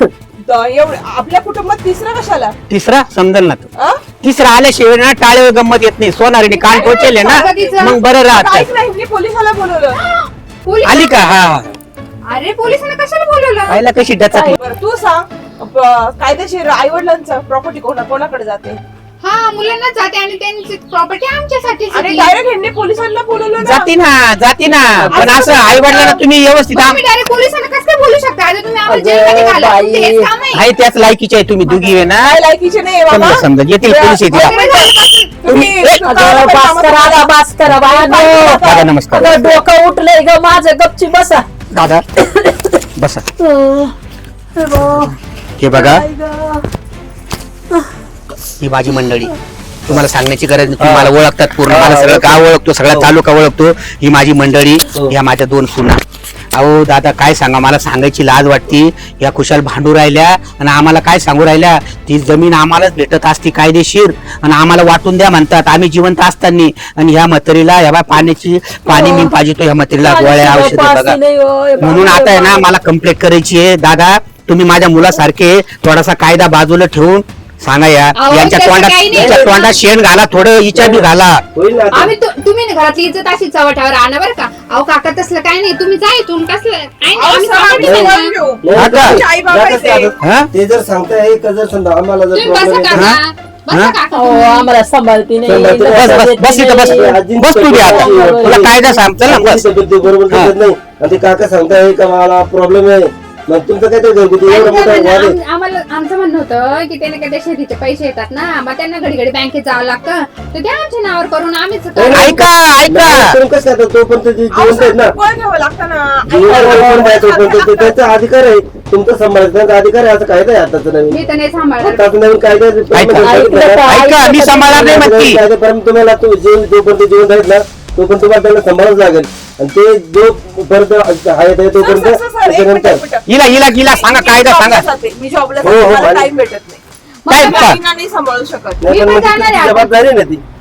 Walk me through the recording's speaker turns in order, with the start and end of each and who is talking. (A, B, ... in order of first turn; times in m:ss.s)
0:00.5-0:02.5 A
0:02.7-0:03.7 B
0:03.8-0:04.0 A
0:04.2-0:08.7 B
0:06.5-0:08.0 C
0:06.7-0:10.0 A
0:10.0-0:11.3 C
0:10.8-0:11.7 B
0:12.3-0:13.8 C
0:13.7-0:14.6 B
0:14.3-0:18.8 A
0:19.2-0:22.3 C
0:21.9-0:23.9 A
0:23.6-0:27.0 B
0:25.0-0:25.5 D
0:25.1-0:26.2 C
0:26.7-0:30.6 C
0:28.9-0:30.3 D
0:30.5-0:32.4 B
0:31.7-0:32.0 C
0:32.2-0:33.5 A
0:33.1-0:34.5 B
0:34.0-0:34.5 D
0:34.3-0:34.9 C
0:34.4-0:38.9 A
0:35.5-0:36.0 B
0:36.0-0:41.5 D
0:38.6-0:39.4 B
0:41.7-0:42.0 B
0:42.4-0:42.7 D
0:43.0-0:43.2 B
0:43.4-0:44.0 D
0:44.6-0:45.2 D
0:45.6-0:46.0 B
0:45.7-0:46.7 D
0:48.6-0:49.3 B
0:49.9-0:56.0 B
0:50.8-0:51.1 E
0:51.7-0:53.1 E
0:56.5-1:11.2 B
1:08.9-1:09.4 D
1:10.0-1:12.7 D
1:11.8-1:21.4 B
1:18.2-1:19.8 C
1:19.1-1:19.6 E
1:20.7-1:22.1 E
1:21.9-1:28.4 C
1:27.1-1:30.1 A
1:27.8-1:33.2 E
1:28.8-1:29.2 B
1:30.2-1:30.5 B
1:32.3-1:34.7 C
1:32.9-1:33.2 B
1:34.1-1:37.2 D
1:35.4-1:38.7 E
1:35.9-1:39.6 B
1:37.8-1:39.0 D
1:39.2-1:45.4 E
1:44.4-1:52.5 C
1:52.0-1:55.1 E
1:52.1-1:53.3 B
1:54.5-1:58.0 A
1:56.3-2:01.2 E
2:01.1-2:02.1 C
2:01.8-2:04.0 E
2:02.9-2:05.4 B
2:03.2-2:05.1 D
2:04.5-2:13.0 E
2:11.8-2:16.8 A
2:13.3-2:14.8 B
2:15.6-2:16.1 B
2:15.6-2:16.3 E
2:17.2-2:17.8 C
2:17.3-2:17.8 B
2:17.4-2:18.9 A
2:18.8-2:20.4 E
2:18.9-2:19.9 C